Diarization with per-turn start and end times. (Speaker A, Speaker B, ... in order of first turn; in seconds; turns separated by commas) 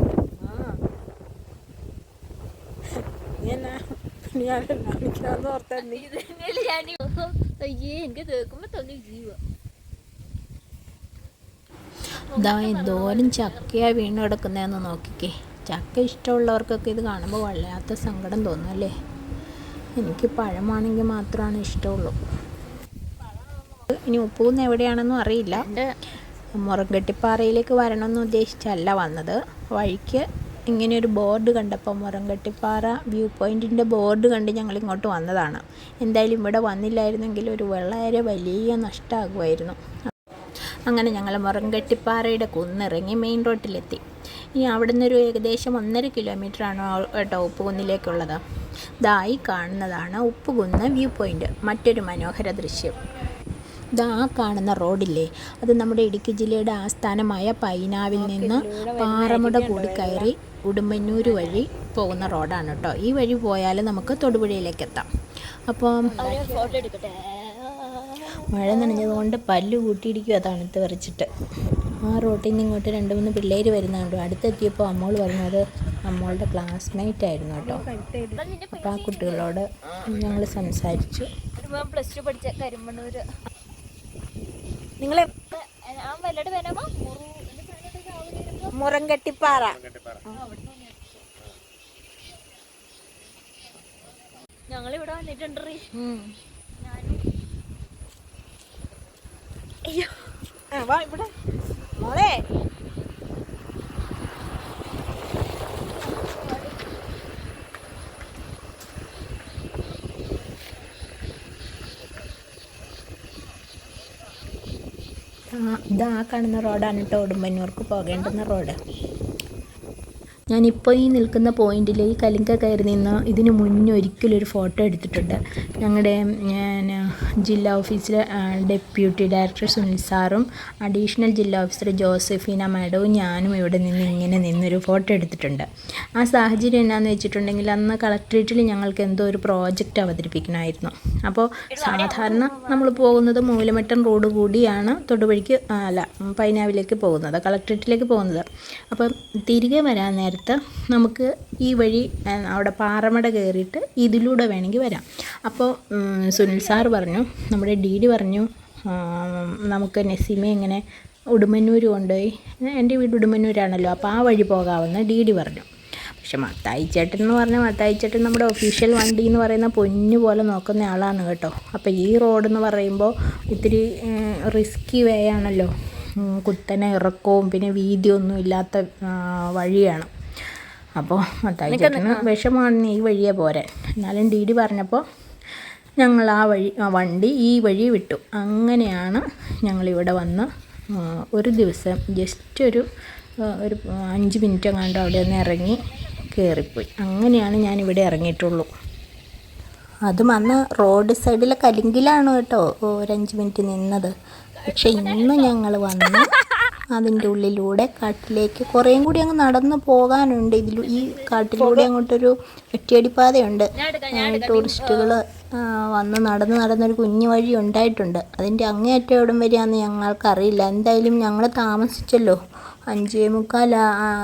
Speaker A: 0.4-0.7, Speaker A: 3.4-3.8, Speaker A: 4.3-6.1, Speaker B: 5.8-9.4, Speaker B: 12.3-13.8, Speaker C: 12.3-18.9, Speaker C: 20.0-22.1, Speaker C: 23.8-25.7, Speaker B: 25.5-25.9, Speaker C: 26.6-39.8, Speaker C: 40.9-48.4, Speaker C: 49.0-53.0, Speaker C: 54.0-65.1, Speaker A: 58.1-60.3, Speaker C: 65.7-66.3, Speaker B: 66.1-69.2, Speaker A: 66.2-66.9, Speaker C: 68.5-71.3, Speaker C: 72.0-77.8, Speaker A: 77.6-78.4, Speaker B: 78.3-79.5, Speaker C: 78.7-81.3, Speaker B: 81.6-83.3, Speaker A: 85.0-85.3, Speaker B: 85.3-88.7, Speaker A: 88.7-90.4, Speaker B: 90.3-91.2, Speaker B: 94.7-96.2, Speaker B: 96.8-97.2, Speaker B: 99.9-100.3, Speaker A: 100.7-101.3, Speaker A: 102.0-102.4, Speaker C: 115.6-118.8, Speaker C: 120.5-135.7, Speaker C: 136.2-160.8, Speaker B: 141.7-143.0, Speaker B: 156.4-156.8, Speaker C: 161.3-180.1, Speaker C: 181.0-185.0, Speaker B: 181.7-182.2, Speaker C: 186.0-192.8, Speaker C: 193.6-198.7, Speaker C: 200.1-204.1, Speaker B: 204.6-205.6, Speaker C: 204.7-206.3, Speaker C: 206.9-223.8, Speaker B: 210.8-211.5, Speaker A: 211.5-211.9, Speaker B: 213.8-215.2